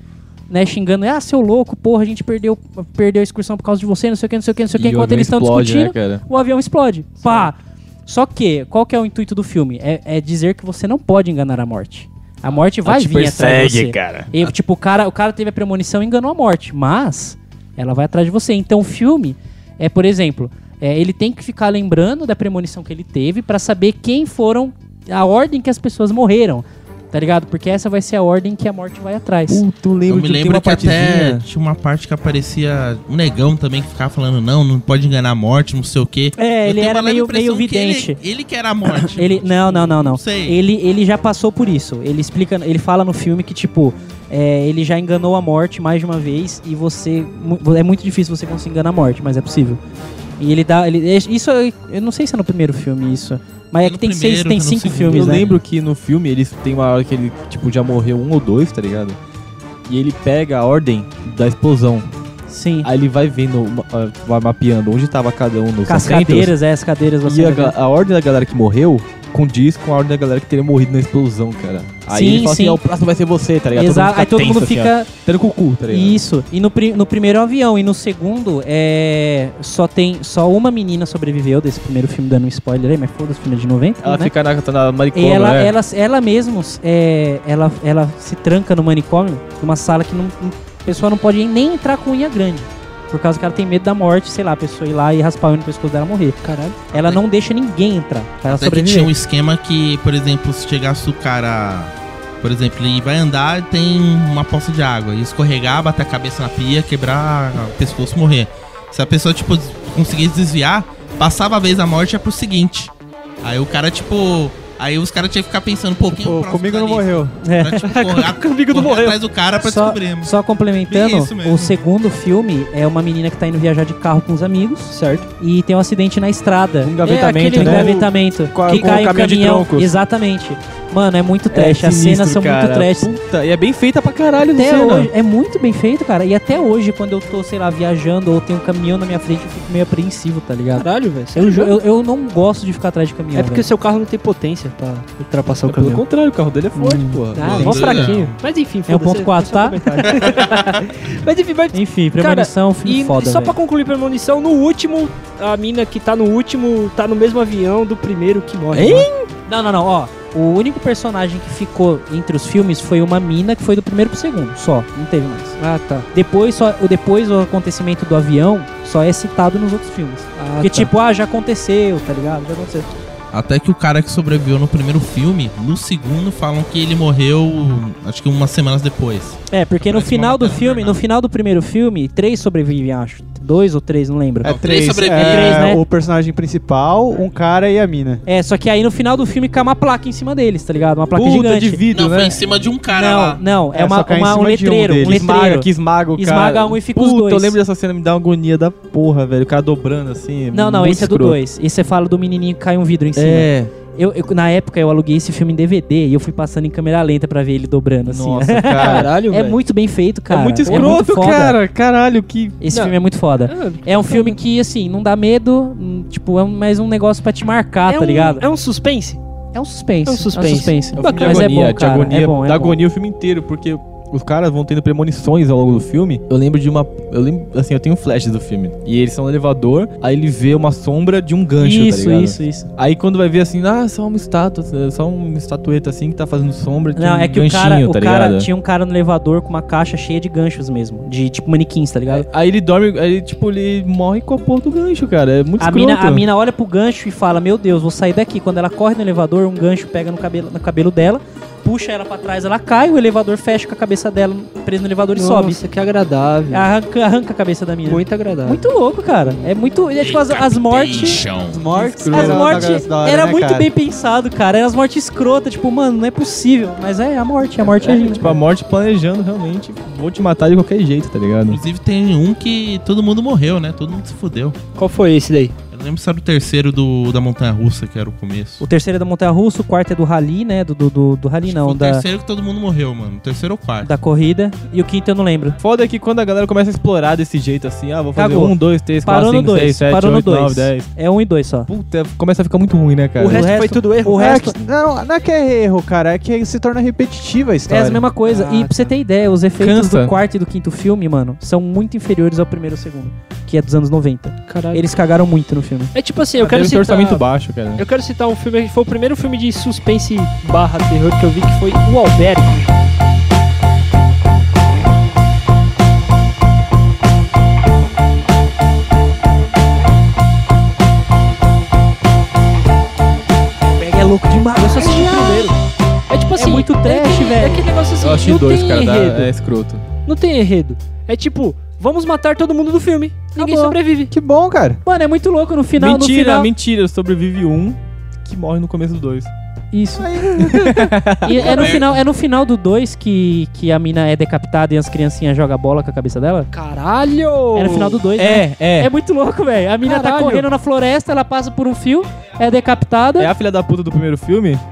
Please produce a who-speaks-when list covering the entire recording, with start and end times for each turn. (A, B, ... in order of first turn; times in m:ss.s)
0:00.5-0:29.6 A
0:04.7-0:06.2 B
0:12.8-0:14.5 B
0:29.5-0:31.4 B
0:30.1-0:40.6 C
0:36.4-0:38.2 A
0:39.1-0:49.8 A
0:50.4-0:55.5 A
0:53.8-0:55.6 C
0:55.1-0:59.2 B
0:59.9-1:02.1 B
1:02.5-1:02.9 A
1:02.8-1:06.5 B
1:05.8-1:07.7 A
1:07.2-1:16.2 B
1:12.1-1:12.8 A
1:13.7-1:15.1 A
1:15.9-1:24.3 A
1:24.0-1:25.7 B
1:25.1-1:36.4 A
1:36.4-1:36.9 D
1:36.9-1:39.1 A
1:36.9-1:37.2 C
1:38.4-1:52.9 C
1:53.4-2:00.3 C
1:56.2-1:57.4 E
1:57.4-1:57.9 A
1:57.8-1:59.2 D
1:59.6-2:13.1 A
2:00.9-2:01.8 C
2:04.9-2:05.3 D
2:06.8-2:09.9 B
2:07.0-2:07.9 D
2:11.5-2:15.1 B
2:14.5-2:23.7 A
2:20.7-2:21.8 D
2:23.3-2:26.0 D
2:25.6-2:27.8 B
2:26.7-2:28.0 A
2:27.3-2:39.1 D
2:27.4-2:28.4 C
2:28.9-2:30.4 A
2:30.1-2:30.8 C
2:31.7-2:33.6 A
2:38.7-2:39.3 B
2:39.5-2:45.6 A
2:45.6-2:46.1 D
2:46.1-2:52.9 A
2:50.4-2:50.9 D
2:53.3-3:01.0 C
2:59.5-3:05.8 A
3:04.4-3:08.2 E
3:04.4-3:05.7 C
3:08.2-3:11.8 A
3:11.1-3:12.4 B
3:11.9-3:13.4 C
3:12.9-3:17.6 A
3:13.7-3:15.3 E
3:15.0-3:21.4 B
3:20.5-3:31.6 A
3:23.2-3:23.7 B
3:28.0-3:29.1 B
3:28.7-3:29.6 D
3:30.3-3:32.6 B
3:30.6-3:31.0 D
3:32.6-3:38.4 A
3:32.7-3:34.4 D
3:37.9-3:39.2 D
3:39.5-3:42.8 A
3:40.0-3:41.5 D
3:41.0-3:58.5 B
3:51.6-3:52.7 A
3:57.0-4:02.3 A
4:02.1-4:06.2 B
4:05.6-4:15.6 A
4:15.2-4:16.7 D
4:16.5-4:28.3 A
4:17.8-4:18.7 D
4:20.0-4:21.6 C
4:21.5-4:23.7 E
4:21.7-4:22.8 B
4:27.6-4:31.6 B
4:31.5-4:34.6 C
4:34.8-4:35.5 D
4:35.7-4:38.6 C
4:38.6-4:42.0 A
4:41.4-4:43.9 C
4:43.8-4:45.6 A
4:45.6-4:50.9 B
4:48.2-4:51.7 A
4:51.7-4:53.4 B
4:53.2-4:54.5 D
4:53.2-4:54.5 A
4:54.1-4:58.0 E
4:57.7-5:05.9 A
4:58.2-4:58.9 D
4:59.6-5:00.1 B
5:04.5-5:04.8 D
5:05.9-5:07.2 D
5:06.4-5:07.8 B
5:07.8-5:12.7 D
5:23.8-5:25.5 A
5:24.6-5:25.6 D
5:26.1-5:29.3 D
5:26.4-5:27.6 A
5:28.0-5:29.8 B
5:30.0-5:34.1 D
5:33.4-5:33.8 A
5:34.1-5:34.8 E
5:34.8-5:36.5 A
5:35.8-5:39.3 B
5:39.7-5:46.5 A
5:40.0-5:40.4 E
5:40.4-5:41.7 B
5:41.4-5:41.9 C
5:46.5-5:48.0 D
5:47.5-5:53.3 A
5:48.2-5:48.9 B
5:49.8-5:50.5 D
5:53.2-5:54.6 B